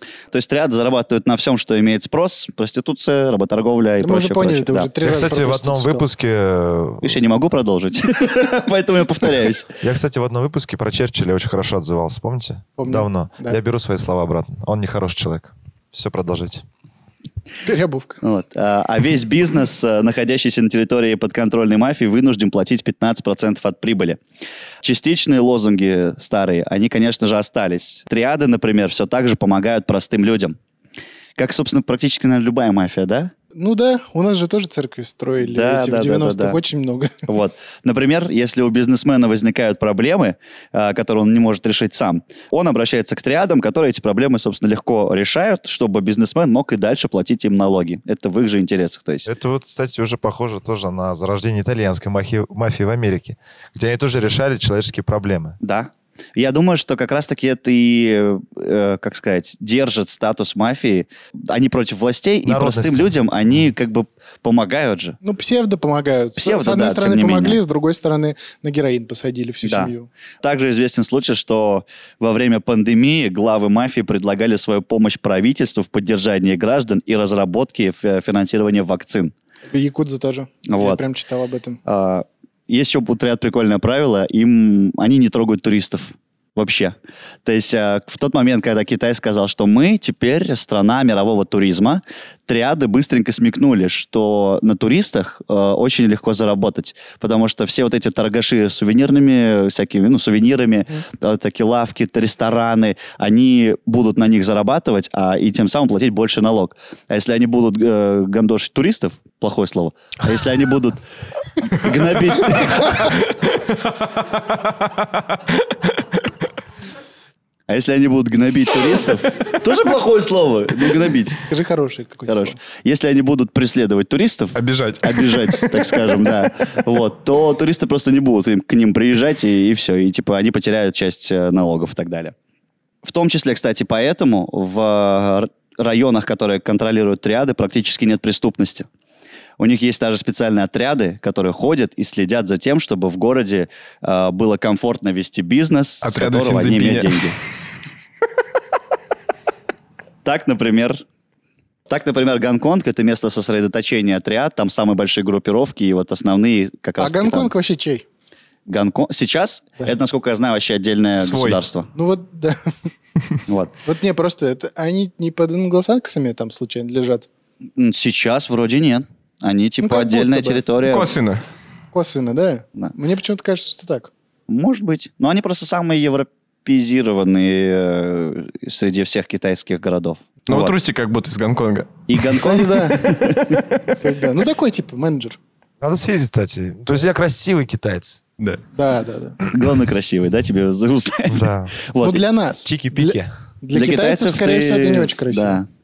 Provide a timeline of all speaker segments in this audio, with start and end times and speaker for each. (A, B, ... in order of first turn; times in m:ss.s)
0:00.3-0:04.9 A
0:04.0-0:06.1 B
0:05.0-0:07.2 C
0:07.0-0:09.7 A
0:09.8-0:16.6 C
0:12.8-0:13.6 B
0:17.6-0:18.2 B
0:18.2-0:24.2 A
0:24.8-0:30.6 A
0:31.4-0:33.3 A
0:33.5-0:37.2 B
0:35.4-0:36.6 A
0:37.2-0:49.3 A
0:49.3-0:55.6 C
0:55.6-1:05.2 A
1:02.4-1:03.6 C
1:05.2-1:10.1 B
1:06.4-1:07.6 A
1:09.6-1:19.3 A
1:19.7-1:21.8 B
1:20.7-1:21.0 A
1:21.8-1:51.0 A
1:51.6-1:53.2 A
1:52.9-1:53.3 D
1:54.2-1:55.4 D
1:57.7-2:01.4 A
2:01.4-2:02.6 B
2:02.3-2:12.3 A
2:04.6-2:06.4 D
2:13.0-2:18.9 A
2:19.6-2:27.4 A
2:26.0-2:27.3 D
2:30.2-2:31.0 A
2:31.9-2:37.5 A
2:37.0-2:38.0 B
2:38.7-2:41.9 A
2:41.2-2:41.6 D
2:42.0-2:42.9 B
2:43.5-2:43.7 A
2:43.8-2:47.3 B
2:47.8-2:51.1 A
2:49.8-2:50.6 B
2:50.8-2:51.4 D
2:51.9-2:54.1 B
2:54.5-3:00.8 A
3:00.5-3:02.0 D
3:02.1-3:03.6 A
3:02.3-3:03.1 B
3:03.9-3:05.4 B
3:05.8-3:08.2 C
3:08.7-3:09.4 B
3:09.4-3:12.2 A
3:11.3-3:11.8 C
3:12.0-3:15.6 B
3:12.6-3:13.3 C
3:13.7-3:15.7 A